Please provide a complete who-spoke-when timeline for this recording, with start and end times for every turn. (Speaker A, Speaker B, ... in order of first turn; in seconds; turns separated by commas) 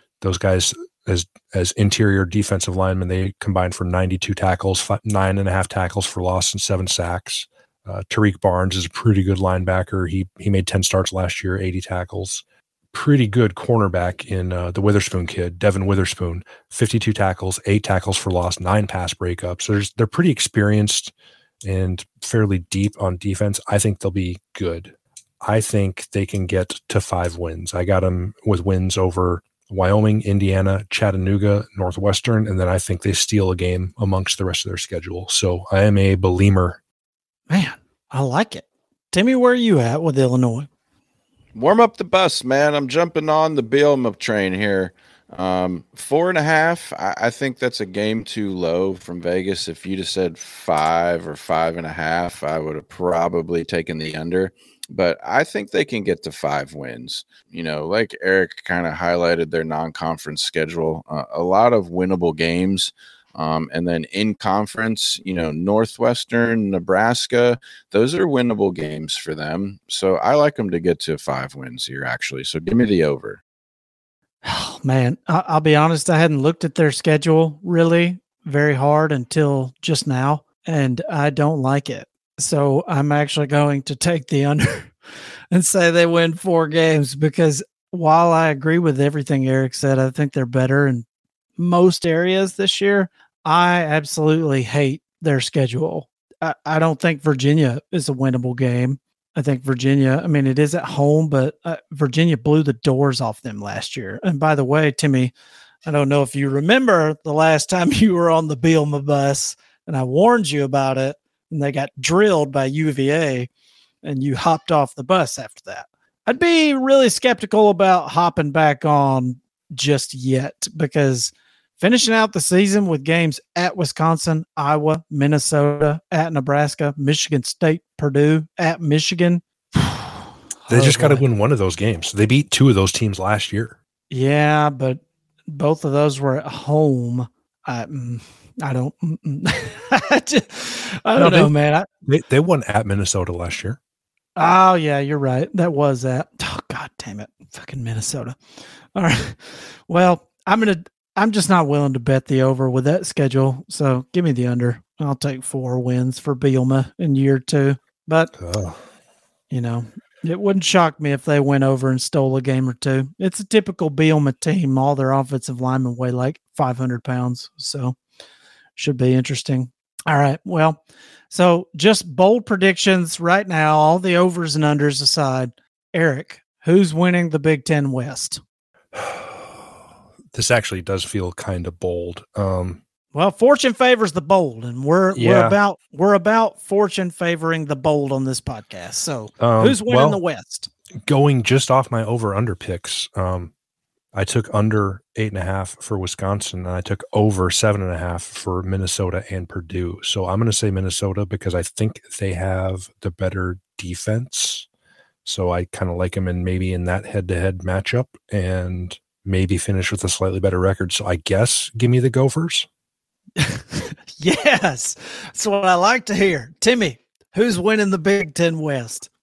Speaker A: 0.2-36.8, Speaker B: 37.5-40.7, Speaker C: 41.5-73.4, Speaker B: 74.4-84.9, Speaker B: 85.5-91.0, Speaker B: 91.6-105.3, Speaker B: 105.8-113.5, Speaker B: 114.0-130.1, Speaker B: 130.6-131.2, Speaker A: 130.7-133.8, Speaker B: 134.1-141.9, Speaker A: 141.2-141.5, Speaker A: 142.0-143.8, Speaker B: 144.3-148.4, Speaker B: 148.9-158.3, Speaker A: 158.4-158.8, Speaker B: 159.5-167.9, Speaker B: 168.8-178.4, Speaker A: 178.9-179.6, Speaker A: 180.3-182.8, Speaker B: 183.1-190.7, Speaker A: 185.1-185.6, Speaker A: 189.4-190.2, Speaker A: 191.1-193.5, Speaker A: 194.1-204.7, Speaker A: 205.2-212.7, Speaker B: 213.4-219.1